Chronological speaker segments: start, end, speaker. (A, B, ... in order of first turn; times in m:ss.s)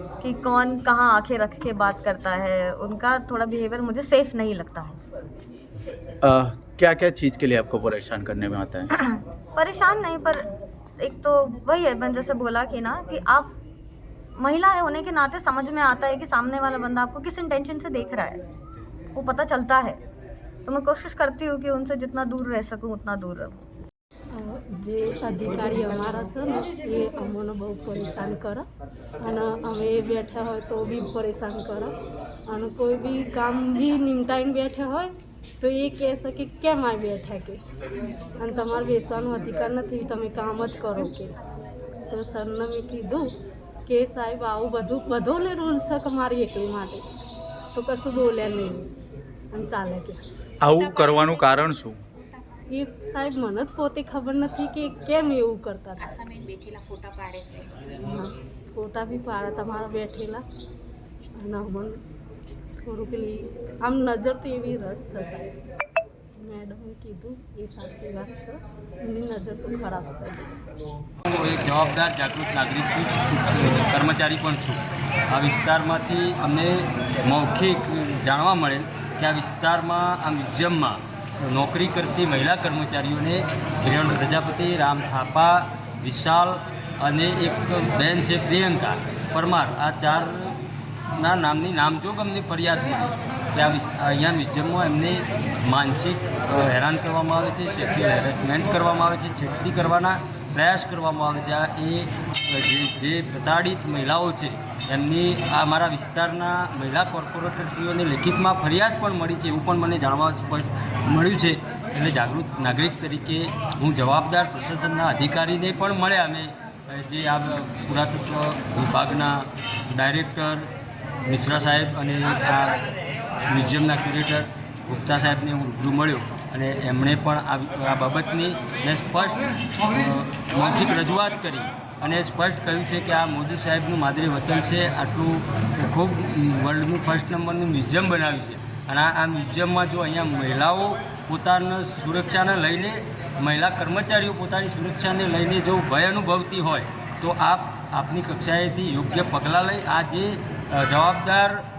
0:00.2-0:05.0 A
0:06.2-0:08.9 B
0:09.0-0:10.4 A
0:11.0-0:13.5 A
0:14.4-0:18.4 A
0:19.2-0:20.0 A
0:20.6-0:23.6 A
0:24.3-0:28.7 C
0:29.2-0:31.9 C
0:32.5-0:37.6 C
0:38.4-0:41.4 C
0:42.1-0:43.3 C
0:43.9-0:47.0 C
0:47.8-0:48.9 C
0:49.5-0:50.2 C
0:50.6-0:52.0 B
0:50.8-0:51.6 D
0:52.7-0:56.2 C
0:56.0-0:57.8 D
0:58.0-1:00.4 C
1:01.4-1:02.0 C
1:02.8-1:05.6 C
1:06.4-1:10.6 C
1:11.3-1:30.5 E
1:31.2-2:00.7 E
2:01.3-2:02.8 E
2:03.5-2:31.6 E